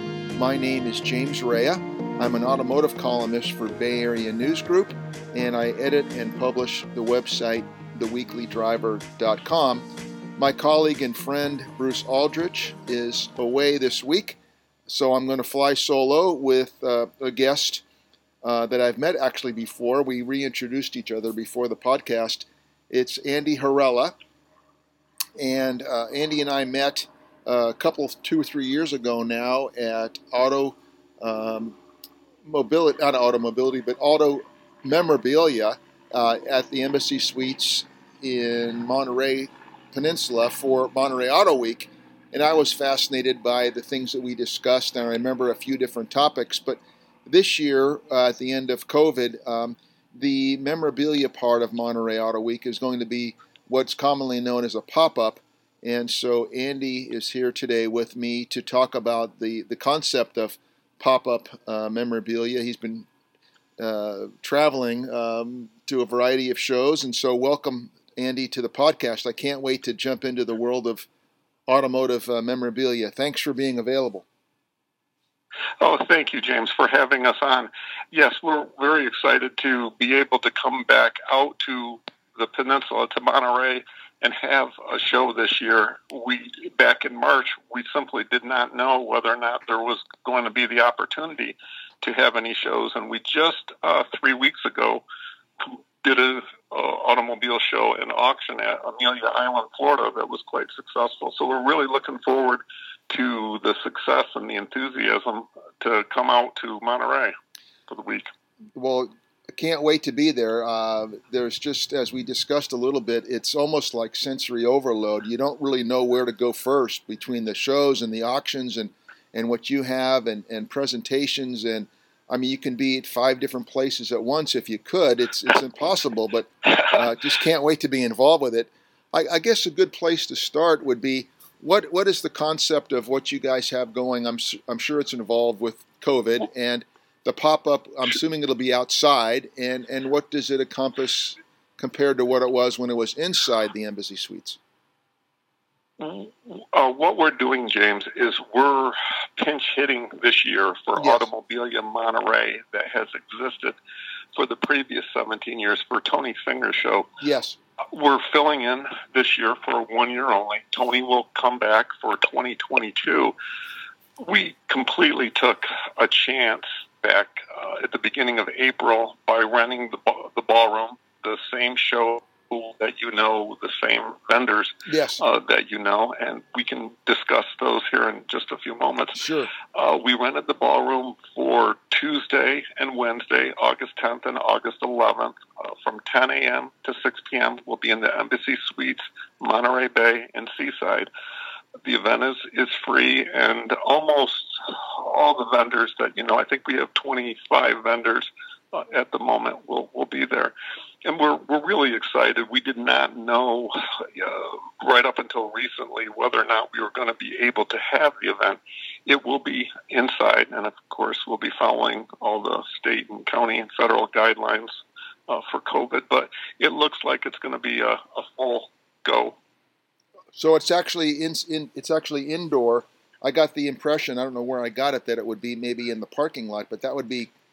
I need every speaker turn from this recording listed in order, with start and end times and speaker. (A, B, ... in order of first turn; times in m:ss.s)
0:00.3-0:09.8 A
0:10.4-0:17.8 A
0:18.4-0:24.1 A
0:25.4-0:31.8 A
0:32.4-1:03.1 A
1:03.8-1:11.1 A
1:11.7-1:14.2 A
1:15.8-1:35.0 B
1:35.6-1:47.3 B
1:47.9-1:48.3 B
1:48.7-2:24.6 A
2:26.0-2:33.8 B
2:31.0-2:31.3 A
2:34.3-2:37.1 B
2:37.2-2:37.6 A
2:37.9-2:43.3 B
2:44.2-3:11.1 B
2:54.8-2:55.2 A
2:59.2-2:59.5 A
3:11.8-3:39.4 B
3:40.3-3:47.3 A